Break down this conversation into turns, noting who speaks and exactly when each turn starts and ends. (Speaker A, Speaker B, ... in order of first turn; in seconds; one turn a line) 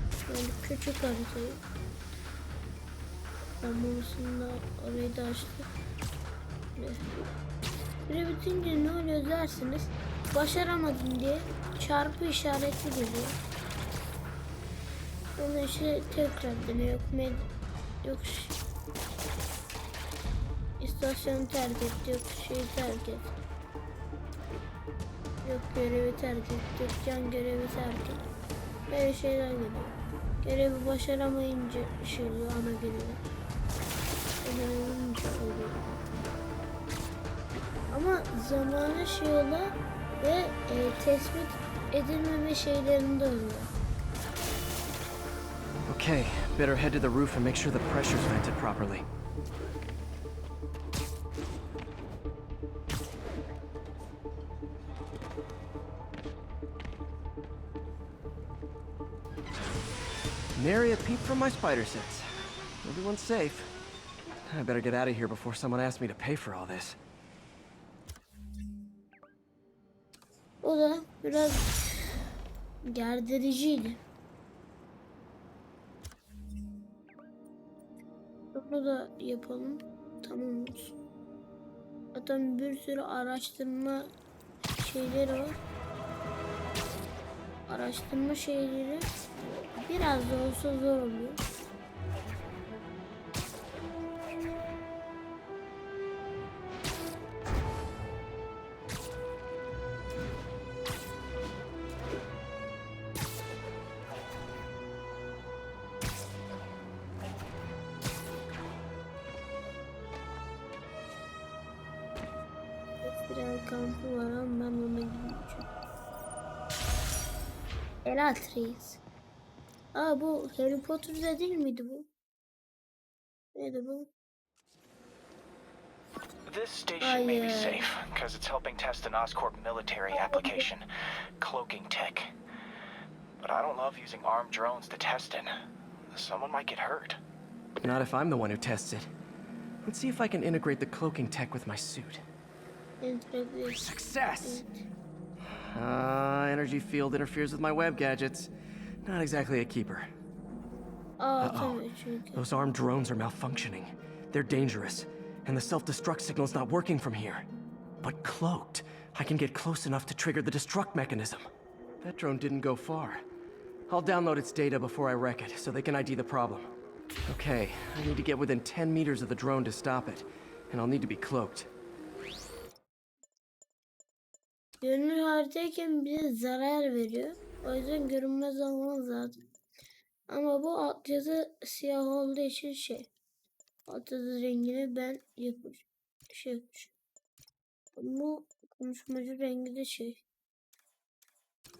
Speaker A: 0.3-1.6
Speaker A: 3.6-5.7
Speaker A: 6.8-7.3
Speaker A: 8.1-13.4
Speaker A: 15.4-17.5
Speaker A: 18.0-18.6
Speaker A: 20.8-23.4
Speaker A: 25.4-28.2
Speaker A: 28.9-33.2
Speaker A: 34.4-35.9
Speaker A: 37.9-43.7
Speaker B: 45.9-49.0
Speaker B: 60.6-62.3
Speaker B: 62.8-63.7
Speaker B: 64.5-67.0
Speaker A: 70.6-72.2
Speaker A: 72.8-74.0
Speaker A: 78.5-81.0
Speaker A: 82.1-84.1
Speaker A: 84.8-85.6
Speaker A: 87.7-89.1
Speaker A: 89.8-91.4
Speaker A: 113.0-115.7
Speaker A: 118.0-119.0
Speaker A: 120.0-122.1
Speaker A: 123.5-124.1
Speaker C: 126.5-130.8
Speaker A: 127.0-127.9
Speaker A: 130.1-130.7
Speaker C: 131.4-132.3
Speaker C: 133.4-135.5
Speaker C: 136.1-137.2
Speaker B: 137.8-139.1
Speaker B: 139.8-142.2
Speaker A: 143.0-143.9
Speaker B: 143.7-144.7
Speaker A: 144.4-144.8
Speaker B: 145.4-148.5
Speaker B: 149.0-150.1
Speaker A: 151.2-152.4
Speaker B: 151.4-151.8
Speaker B: 152.3-157.5
Speaker B: 158.0-161.5
Speaker B: 162.0-163.2
Speaker B: 163.9-166.7
Speaker B: 167.3-171.7
Speaker A: 174.8-179.3
Speaker A: 180.3-183.1
Speaker A: 183.9-186.9
Speaker A: 188.0-190.2